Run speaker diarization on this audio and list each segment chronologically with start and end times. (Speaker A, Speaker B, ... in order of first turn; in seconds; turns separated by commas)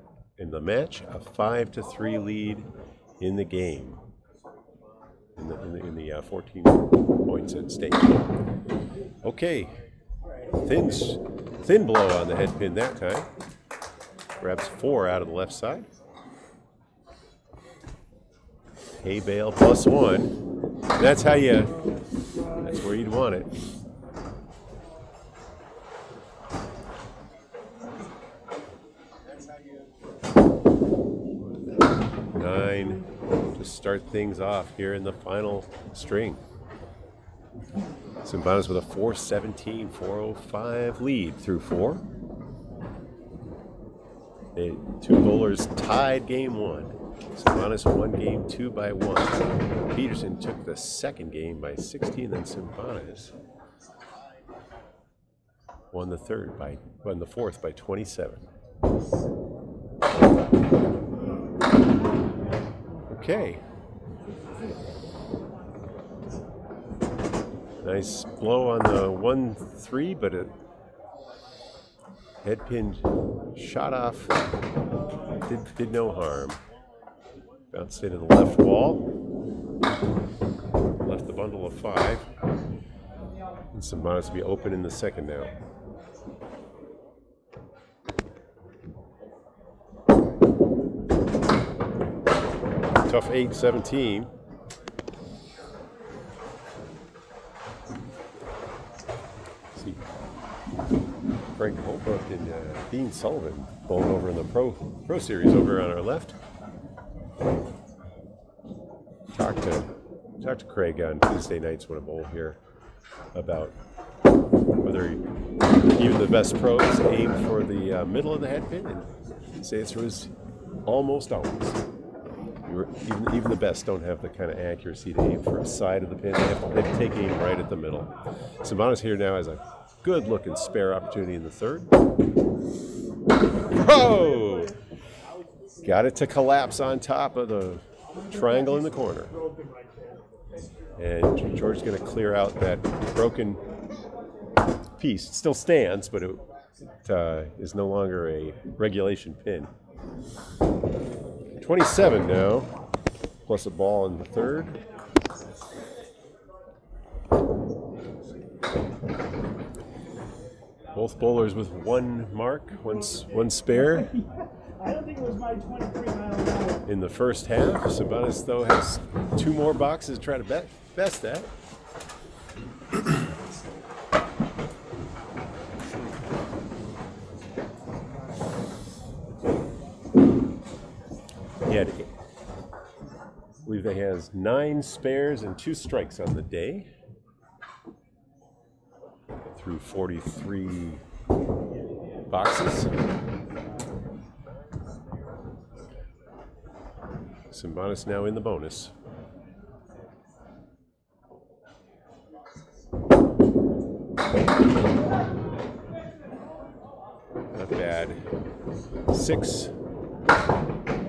Speaker A: 0.4-4.0, Speaker A: 5.3-8.2, Speaker A: 9.2-9.8, Speaker A: 10.6-13.3, Speaker A: 14.4-15.9, Speaker A: 19.0-20.3, Speaker A: 20.9-21.8, Speaker B: 21.8-22.8, Speaker A: 22.6-23.5, Speaker A: 32.3-36.4, Speaker A: 38.2-42.0, Speaker A: 44.5-53.3, Speaker A: 55.9-58.4, Speaker A: 63.1-63.6, Speaker A: 67.8-70.5, Speaker A: 72.4-74.3, Speaker A: 75.4-76.6, Speaker A: 77.7-79.0, Speaker A: 81.0-82.3, Speaker A: 83.7-85.5, Speaker A: 93.0-94.3, Speaker A: 99.8-100.0, Speaker A: 101.6-106.3, Speaker A: 109.3-112.6, Speaker A: 113.3-113.7, Speaker A: 114.8-115.2, Speaker A: 115.9-120.3, Speaker A: 120.8-121.8, Speaker A: 122.7-131.9, Speaker A: 133.7-134.7, Speaker B: 133.8-134.8, Speaker A: 135.8-139.3, Speaker B: 138.1-140.3, Speaker A: 141.0-143.6, Speaker A: 145.0-146.4, Speaker A: 147.0-149.7, Speaker A: 151.6-152.7, Speaker A: 153.4-154.8, Speaker A: 160.9-164.1, Speaker B: 162.8-166.9, Speaker A: 166.8-171.5, Speaker A: 181.6-182.1, Speaker A: 183.6-186.9, Speaker A: 189.5-191.0, Speaker A: 192.3-193.0, Speaker A: 197.5-198.9, Speaker A: 207.5-208.2, Speaker A: 209.1-209.7